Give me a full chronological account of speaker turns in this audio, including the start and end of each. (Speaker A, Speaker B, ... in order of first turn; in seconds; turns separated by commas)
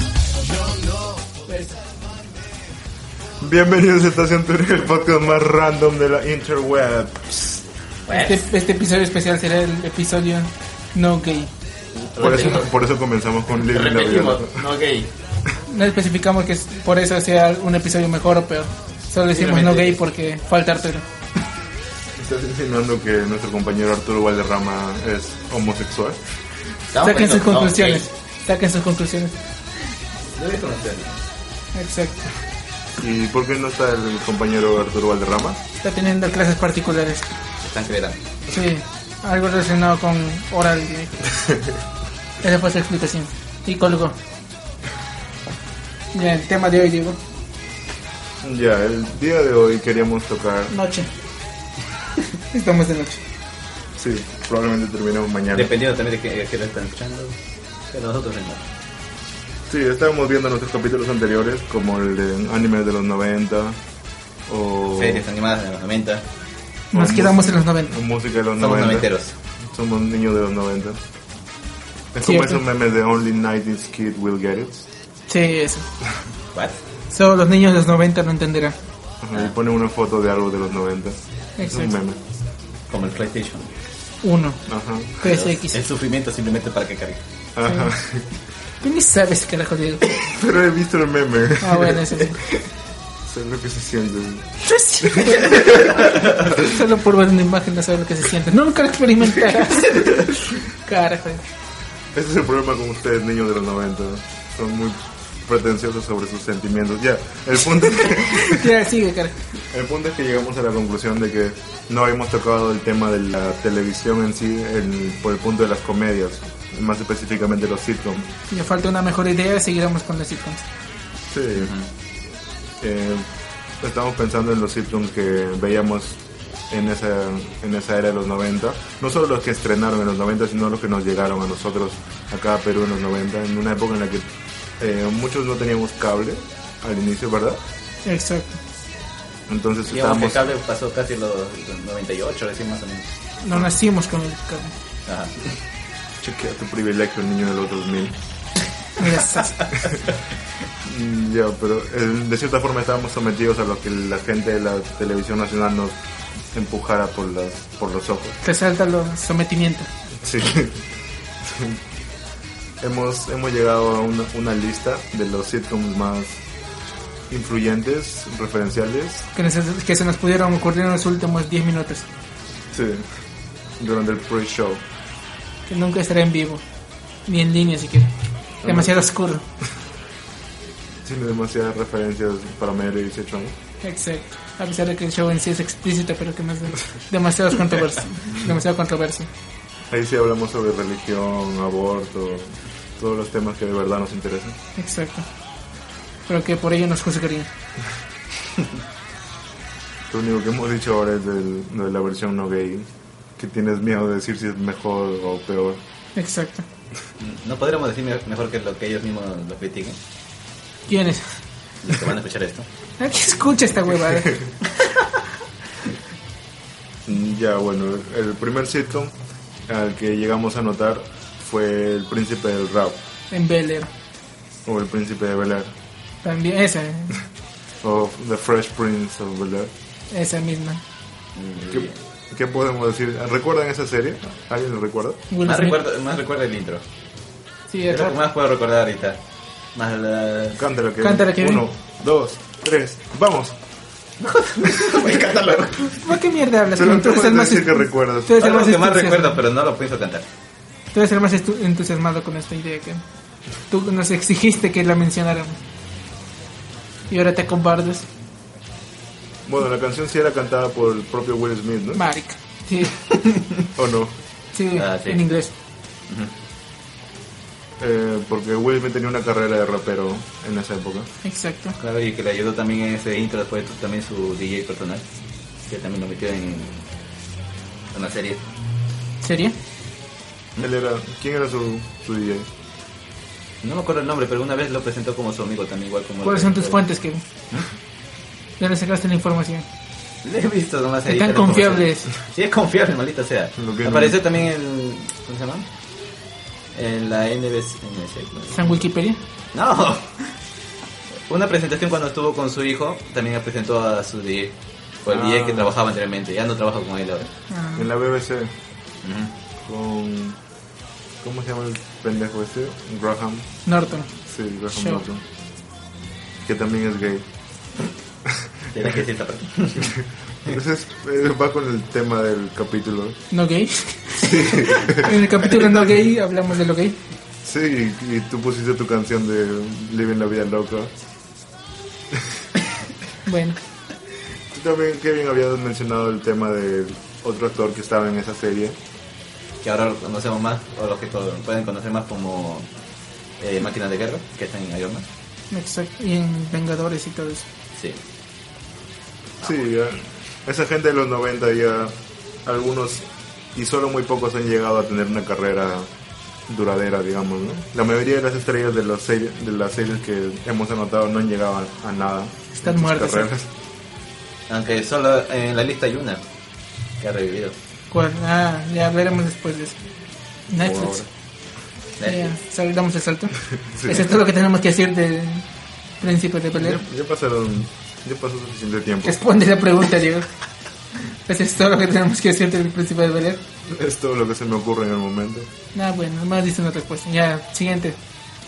Speaker A: 0.5-1.1, Speaker B: 1.4-1.8, Speaker C: 3.4-7.7, Speaker A: 8.1-8.4, Speaker B: 8.1-11.5, Speaker A: 12.0-12.7, Speaker C: 12.2-14.7, Speaker A: 13.6-15.1, Speaker B: 15.6-21.0, Speaker A: 19.3-20.0, Speaker C: 22.2-26.2, Speaker A: 26.9-28.0, Speaker B: 27.0-29.4, Speaker A: 30.4-31.2, Speaker B: 31.7-32.2, Speaker C: 33.0-35.6, Speaker B: 35.8-37.3, Speaker A: 37.6-38.2, Speaker B: 38.5-41.3, Speaker B: 42.4-44.2, Speaker B: 46.1-47.2, Speaker C: 48.4-50.7, Speaker B: 50.7-51.1, Speaker B: 52.5-53.2, Speaker C: 54.0-55.7, Speaker A: 55.5-57.4, Speaker A: 57.9-58.7, Speaker C: 59.7-63.8, Speaker C: 64.5-65.3, Speaker A: 64.9-66.2, Speaker B: 66.9-68.0, Speaker C: 66.9-69.1, Speaker A: 68.6-69.3, Speaker C: 69.7-71.0, Speaker C: 72.1-74.9, Speaker B: 72.2-72.6, Speaker B: 75.3-75.9, Speaker B: 77.1-78.8, Speaker C: 79.2-82.2, Speaker B: 81.6-81.9, Speaker A: 82.9-83.7, Speaker B: 84.2-84.6, Speaker C: 84.7-85.2, Speaker B: 85.2-85.8, Speaker A: 85.2-87.2, Speaker C: 87.5-88.3, Speaker B: 87.7-87.9, Speaker B: 88.8-90.0, Speaker C: 90.2-92.2, Speaker B: 91.6-92.4, Speaker C: 93.2-96.6, Speaker B: 94.6-101.4, Speaker A: 95.5-96.4, Speaker C: 102.1-108.7, Speaker B: 108.2-109.3, Speaker C: 109.7-118.3, Speaker B: 118.5-120.7, Speaker C: 121.3-121.7, Speaker A: 121.6-121.9, Speaker C: 122.8-123.2, Speaker C: 123.8-134.3, Speaker C: 134.8-137.6, Speaker B: 138.0-138.6, Speaker C: 139.5-140.5, Speaker A: 139.9-143.1, Speaker B: 143.4-144.7, Speaker A: 145.1-145.3, Speaker C: 146.2-148.2, Speaker B: 149.0-149.7, Speaker C: 150.8-156.0, Speaker C: 156.5-158.4, Speaker B: 158.4-159.9, Speaker C: 160.2-160.8, Speaker C: 161.4-161.8, Speaker C: 162.8-166.4, Speaker C: 167.3-169.3, Speaker B: 169.3-172.1, Speaker C: 172.7-173.1, Speaker C: 173.8-174.8, Speaker B: 175.7-176.6, Speaker B: 177.3-178.1, Speaker B: 178.6-179.4, Speaker C: 178.7-178.9, Speaker C: 181.0-183.6, Speaker B: 183.8-189.3, Speaker C: 189.9-194.6, Speaker B: 194.8-195.3, Speaker B: 196.3-197.5, Speaker C: 200.1-205.8, Speaker B: 206.2-206.7, Speaker A: 207.2-210.0, Speaker B: 210.9-211.4, Speaker A: 211.8-212.7, Speaker B: 213.0-214.6, Speaker C: 217.1-219.1, Speaker C: 219.7-223.0, Speaker B: 223.3-223.9, Speaker C: 224.7-225.7, Speaker B: 226.2-227.2, Speaker C: 227.8-229.7, Speaker B: 230.1-230.8, Speaker A: 231.3-231.9, Speaker C: 231.7-235.2, Speaker B: 235.3-235.8, Speaker A: 235.4-236.8, Speaker B: 237.7-238.2, Speaker A: 237.9-239.2, Speaker A: 239.7-240.6, Speaker C: 240.5-243.6, Speaker B: 241.0-241.6, Speaker A: 244.2-246.1, Speaker C: 244.7-245.2, Speaker B: 245.8-249.4, Speaker C: 246.7-248.4, Speaker A: 248.4-250.3, Speaker B: 250.9-253.0, Speaker B: 253.7-255.6, Speaker B: 257.1-258.1, Speaker C: 259.5-262.0, Speaker B: 261.9-263.0, Speaker A: 263.1-263.5, Speaker C: 263.8-264.1, Speaker B: 264.5-265.5, Speaker A: 264.8-265.2, Speaker C: 267.8-271.1, Speaker B: 271.2-271.8, Speaker A: 271.8-275.0, Speaker A: 275.7-276.9, Speaker A: 277.9-278.4, Speaker B: 279.2-279.6, Speaker C: 280.6-282.5, Speaker A: 283.6-286.8, Speaker B: 286.2-287.2, Speaker B: 288.6-289.6, Speaker A: 290.2-295.6, Speaker B: 291.1-292.1, Speaker C: 293.6-294.2, Speaker A: 296.7-298.8, Speaker B: 298.5-299.2, Speaker A: 299.5-300.4, Speaker A: 301.3-307.3, Speaker C: 305.1-305.7, Speaker B: 307.5-307.9, Speaker C: 307.8-308.5, Speaker A: 309.0-309.3, Speaker C: 309.6-310.4, Speaker C: 311.2-313.5, Speaker B: 313.6-314.1, Speaker C: 314.3-315.2, Speaker B: 314.7-315.0, Speaker C: 316.4-317.2, Speaker A: 318.7-320.6, Speaker C: 319.8-323.2, Speaker B: 323.3-327.0, Speaker C: 324.2-325.2, Speaker C: 327.4-330.9, Speaker C: 332.1-332.4, Speaker B: 333.2-333.6, Speaker C: 334.5-338.8, Speaker A: 339.6-342.7, Speaker A: 343.4-345.1, Speaker B: 345.5-347.5, Speaker A: 347.8-348.0, Speaker C: 349.4-351.9, Speaker C: 352.5-355.9, Speaker C: 356.5-363.5, Speaker B: 362.5-363.3, Speaker A: 364.5-366.2, Speaker A: 367.0-367.6, Speaker B: 367.9-369.8, Speaker B: 370.5-371.0, Speaker C: 370.6-371.0, Speaker A: 372.0-372.3, Speaker B: 372.0-375.4, Speaker C: 373.7-374.1, Speaker B: 376.0-376.8, Speaker C: 376.5-379.2, Speaker B: 379.0-380.3, Speaker B: 381.2-383.4, Speaker C: 383.6-385.5, Speaker B: 385.7-388.0